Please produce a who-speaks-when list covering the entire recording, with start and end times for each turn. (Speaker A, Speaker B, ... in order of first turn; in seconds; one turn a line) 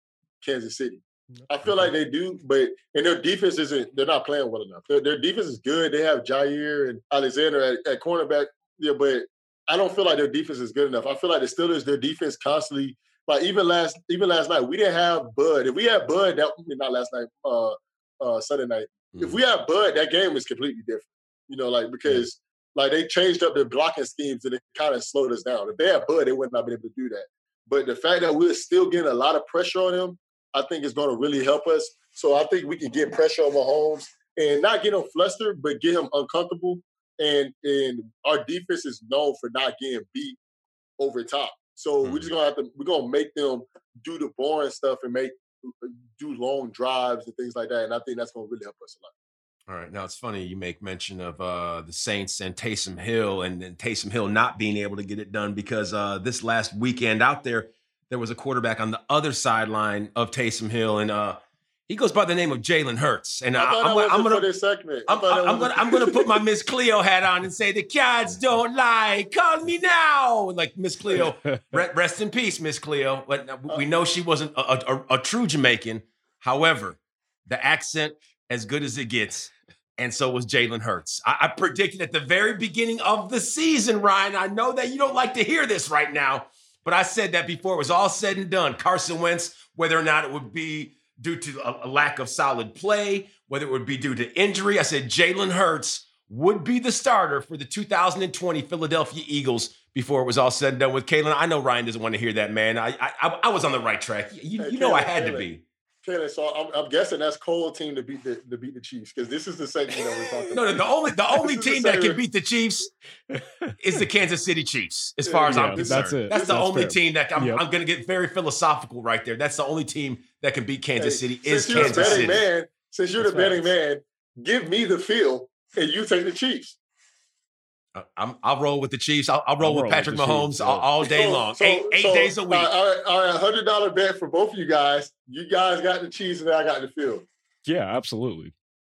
Speaker A: 0.4-40.4
Speaker B: 19.1-19.4
Speaker A: 41.0-49.1
Speaker B: 42.0-42.3
Speaker B: 49.7-64.4
Speaker A: 63.5-66.4
Speaker B: 65.1-105.6
Speaker C: 71.1-71.8
Speaker A: 104.6-105.5
Speaker A: 106.0-110.8
Speaker B: 110.5-112.9
Speaker A: 111.4-112.2
Speaker C: 113.3-113.8
Speaker B: 113.8-122.4
Speaker A: 115.2-116.9
Speaker C: 115.5-117.6
Speaker A: 121.0-126.8
Speaker C: 121.7-122.2
Speaker C: 123.2-123.6
Speaker B: 127.9-132.7
Speaker C: 129.6-130.9
Speaker A: 131.0-137.3
Speaker C: 137.6-138.5